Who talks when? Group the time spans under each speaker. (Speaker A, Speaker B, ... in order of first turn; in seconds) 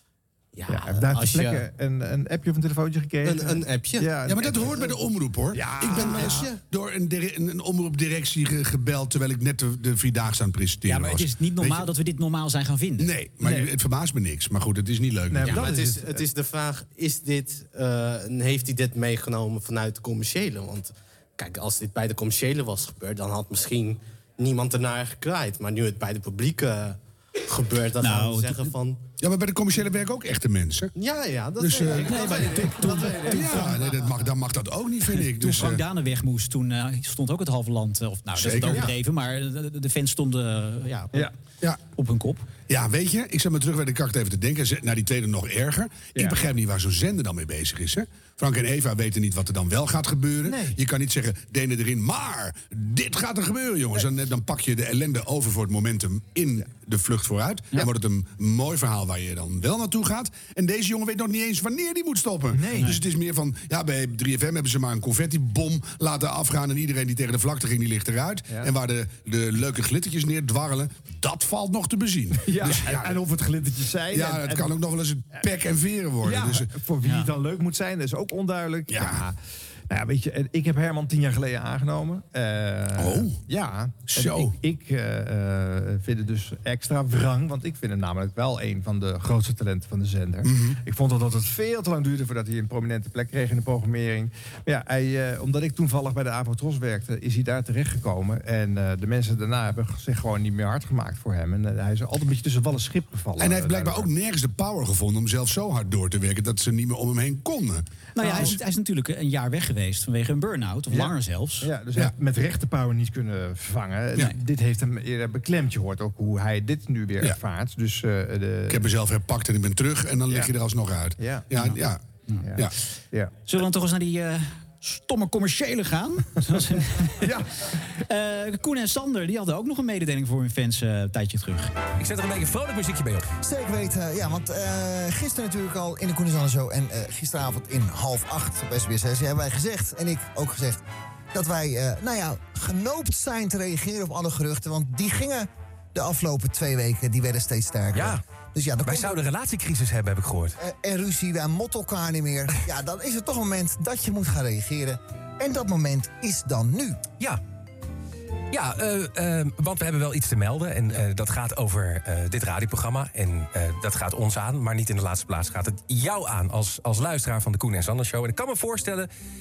Speaker A: 0.5-1.6, 3.2-4.1, 5.9-6.6, 15.4-29.0, 30.9-33.2
Speaker B: 0.7-4.9, 5.5-6.5, 13.4-13.7, 15.3-16.2, 32.1-33.8, 50.4-50.8, 62.5-63.0, 72.4-74.7, 76.2-79.3, 79.9-104.1, 108.2-108.6, 110.9-118.9, 121.2-121.5, 122.4-123.3, 127.2-127.5
Speaker C: 4.2-11.9, 13.0-15.7, 29.2-30.9, 31.6-32.2, 33.2-35.8, 38.3-38.9, 42.7-73.2, 74.1-76.7, 78.9-79.2, 83.0-83.4, 84.1-84.5, 90.4-90.8, 103.4-107.8, 118.7-122.0
Speaker D: 10.8-13.1, 28.0-28.7, 32.0-33.6, 35.2-41.3, 41.9-42.5, 108.1-111.7, 123.5-127.3, 128.0-131.8
Speaker E: 131.9-133.3, 147.9-148.2, 148.8-150.6, 158.5-169.1
Speaker F: 133.4-140.8, 141.3-149.2, 150.6-157.0